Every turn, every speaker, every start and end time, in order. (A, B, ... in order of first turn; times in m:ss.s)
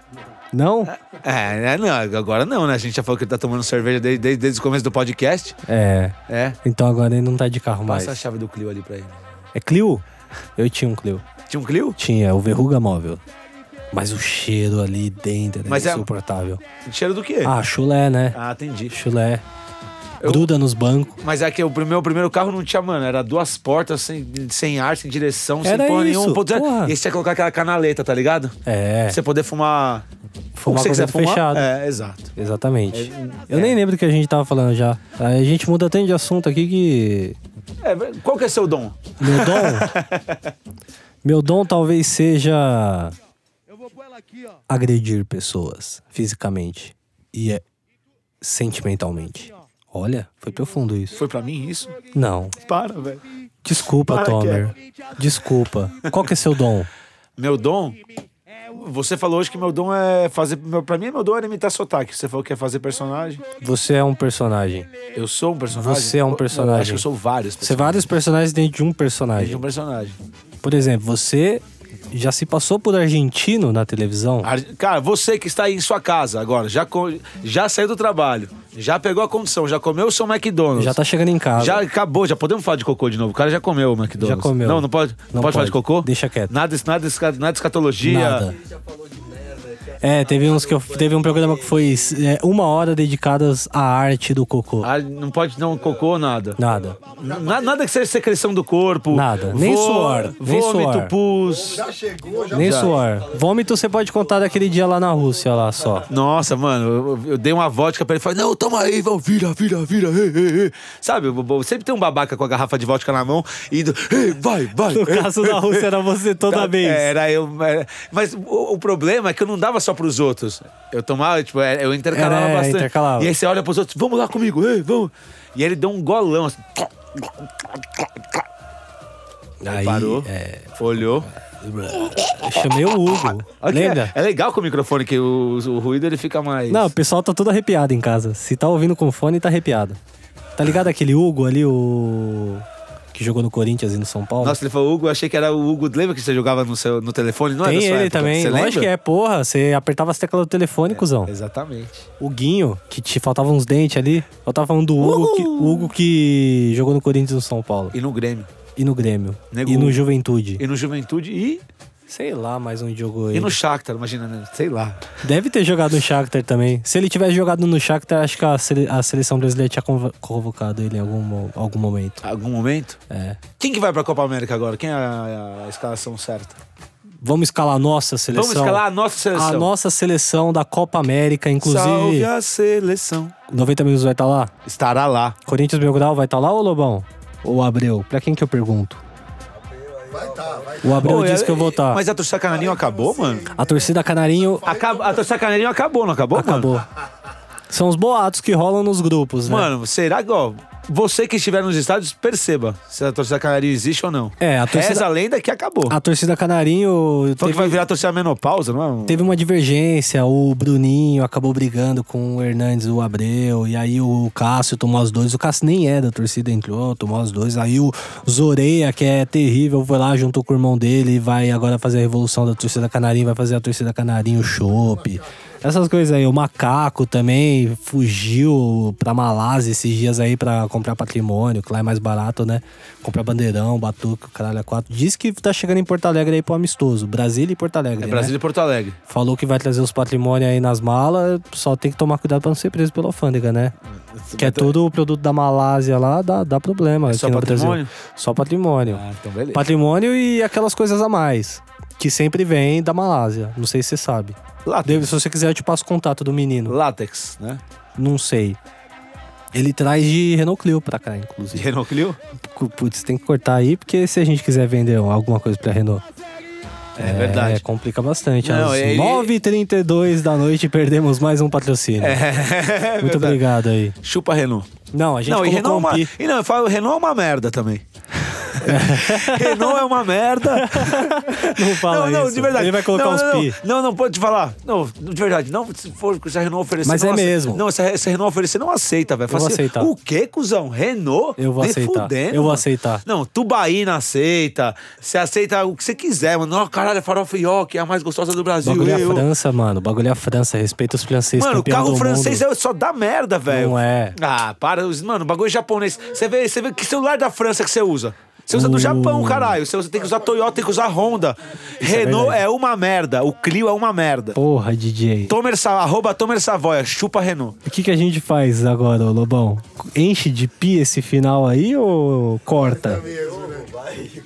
0:00.5-0:00.9 A
0:00.9-0:05.6 B
0:05.7-0:08.2 A
0:06.3-0:06.6 B
0:07.9-0:09.2 B
0:09.6-0:10.0 A
0:10.6-0:11.2 A
0:11.5-0:12.0 B
0:12.0-0:13.2 A
0:13.9-0:16.6 A
0:15.6-0:16.1 B
0:16.8-0:17.5 B
0:17.4-0:18.4 A
0:18.3-0:19.0 B
0:18.9-0:19.4 A
0:20.2-0:20.5 B
0:20.2-0:21.2 A
0:21.2-0:28.6 B
0:25.6-0:27.0 A
0:28.7-0:29.2 A
0:29.1-0:30.0 B
0:30.6-0:31.7 A
0:30.7-0:32.3 B
0:32.4-0:37.4 A
0:32.9-0:33.8 B
0:37.8-0:40.5 B
0:39.2-0:40.0 A
0:41.2-0:43.2 A
0:44.7-0:47.6 A
0:48.4-0:51.2 A
0:51.2-0:52.0 B
0:52.1-0:52.6 A
0:52.6-0:53.2 B
0:53.6-0:56.9 A
0:54.0-0:54.7 B
0:57.4-0:58.0 B
0:58.7-1:03.4 B
1:03.6-1:04.9 A
1:05.1-1:08.0 B
1:05.7-1:07.0 A
1:07.6-1:09.6 A
1:09.4-1:10.2 B
1:10.6-1:14.5 A
1:14.4-1:21.0 B
1:20.8-1:21.8 A
1:21.6-1:28.5 B
1:24.2-1:26.5 A
1:28.0-1:28.6 A
1:30.0-1:34.9 A
1:34.8-1:41.8 B
1:36.6-1:37.0 A
1:39.1-1:41.1 A
1:41.7-1:43.1 C
1:42.5-1:46.1 A
1:42.5-1:43.0 B
1:46.1-1:55.9 B
1:54.9-1:57.1 A
1:56.5-2:08.4 B
2:02.1-2:03.3 A
2:09.6-2:14.1 A
2:09.7-2:11.3 B
2:12.1-2:12.6 B
2:13.6-2:16.9 B
2:16.7-2:20.0 A
2:20.6-2:24.6 A
2:24.4-2:28.9 B
2:27.6-2:31.3 A
2:30.9-2:32.1 B
2:32.2-2:37.9 A
2:35.0-2:35.9 B
2:37.9-2:38.5 B
2:38.8-2:40.6 A
2:39.5-2:40.0 B
2:40.6-2:41.6 B
2:42.1-2:43.6 A
2:43.3-2:45.0 B
2:45.2-2:52.2 A
2:52.2-2:53.0 B
2:53.1-2:53.4 A
2:53.6-2:56.6 B
2:57.2-2:58.8 A
2:58.3-2:59.7 B
2:59.3-3:02.3 A
3:01.6-3:03.4 B
3:03.5-3:04.5 A
3:04.6-3:05.4 B
3:05.5-3:09.0 A
3:10.1-3:11.0 C
3:10.8-3:12.0 A
3:11.0-3:13.5 B
3:12.5-3:15.2 C
3:13.6-3:14.7 A
3:14.6-3:16.8 B
3:16.3-3:16.9 A
3:17.7-3:19.7 A
3:19.5-3:26.0 B
3:24.4-3:25.1 A
3:25.9-3:27.8 A
3:27.4-3:29.3 B
3:29.1-3:58.3 A
3:58.0-3:59.0 B
3:59.1-4:03.7 A
4:04.1-4:04.8 B
4:04.4-4:16.8 A
4:07.1-4:07.9 B
4:08.9-4:09.7 B
4:14.7-4:15.1 B
4:16.7-4:17.6 B
4:18.0-4:18.6 A
4:19.5-4:21.7 A
4:21.5-4:22.2 B
4:22.5-4:26.0 A
4:27.0-4:27.6 B
4:27.0-4:32.2 A
4:28.4-4:29.3 B
4:32.0-4:33.4 B
4:33.0-4:34.0 A
4:34.0-4:34.7 B
4:34.9-4:36.1 A
4:35.3-4:59.3 B
4:38.6-4:39.8 A
4:40.5-4:43.6 A
4:46.8-4:47.6 A
4:49.3-4:49.9 A
4:51.4-4:53.0 A
4:58.6-5:02.4 A
5:01.4-5:14.4 B
5:03.5-5:04.2 A
5:08.5-5:09.6 A
5:11.8-5:12.4 A
5:14.4-5:15.3 A
5:15.3-5:17.6 B
5:17.6-5:23.0 A
5:22.6-5:23.9 C